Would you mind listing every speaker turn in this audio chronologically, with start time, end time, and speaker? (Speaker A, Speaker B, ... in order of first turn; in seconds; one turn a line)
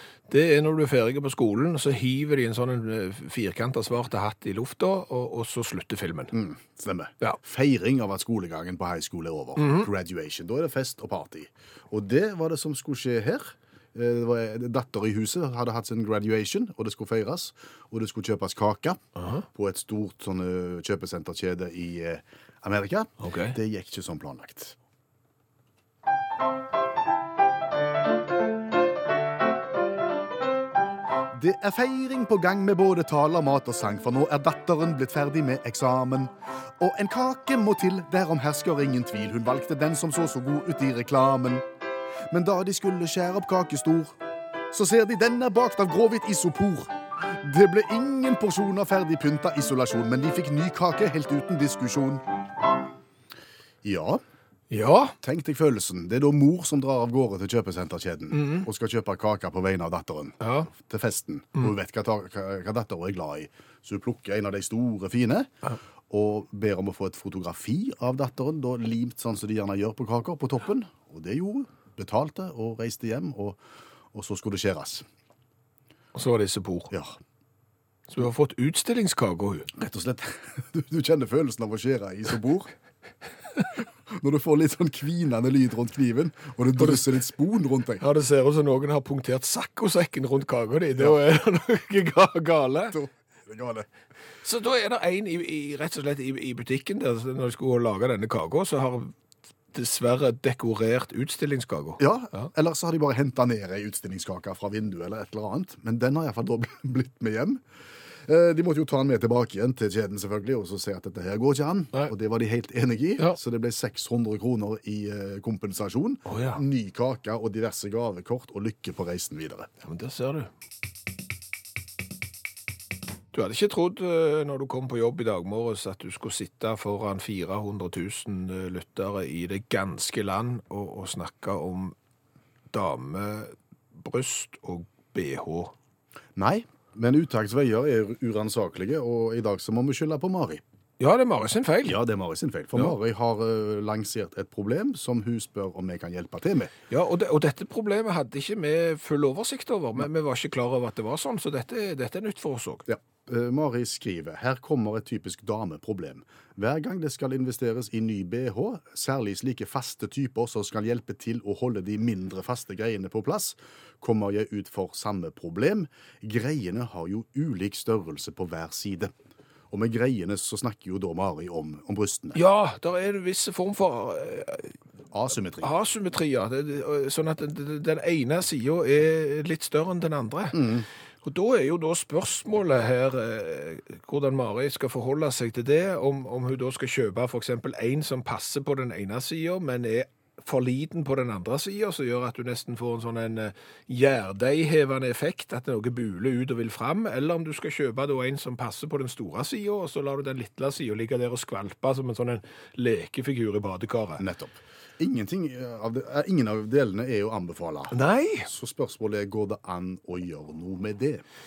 Speaker A: 0.3-6.3
Speaker B: 6.3-19.0
Speaker A: 9.6-9.9
Speaker A: 19.2-19.4
Speaker B: 19.5-24.8
Speaker A: 23.2-23.6
Speaker B: 31.3-41.6
Speaker B: 42.3-44.2
Speaker B: 44.7-52.2
Speaker B: 53.8-54.2
Speaker A: 54.7-55.2
Speaker B: 55.2-73.6
Speaker A: 58.3-58.7
Speaker A: 60.4-60.7
Speaker B: 74.1-75.0
Speaker A: 76.1-76.9
Speaker B: 76.9-77.2
Speaker A: 78.1-79.7
Speaker B: 79.7-82.7
Speaker B: 84.1-88.0
Speaker A: 86.8-87.1
Speaker A: 88.0-93.0
Speaker B: 92.9-93.9
Speaker A: 94.4-99.1
Speaker A: 99.7-102.5
Speaker B: 102.0-107.6
Speaker B: 108.2-119.7
Speaker A: 116.3-116.6
Speaker A: 119.8-120.5
Speaker A: 123.3-131.9
Speaker A: 132.7-135.7
Speaker B: 136.4-140.6
Speaker A: 141.0-142.0
Speaker B: 141.8-146.7
Speaker A: 146.9-152.9
Speaker B: 152.9-169.1
Speaker B: 169.7-172.4
Speaker A: 172.3-174.8
Speaker B: 175.1-175.7
Speaker A: 175.6-180.7
Speaker B: 180.5-180.9
Speaker A: 181.2-204.2
Speaker B: 204.2-211.2
Speaker A: 207.9-208.5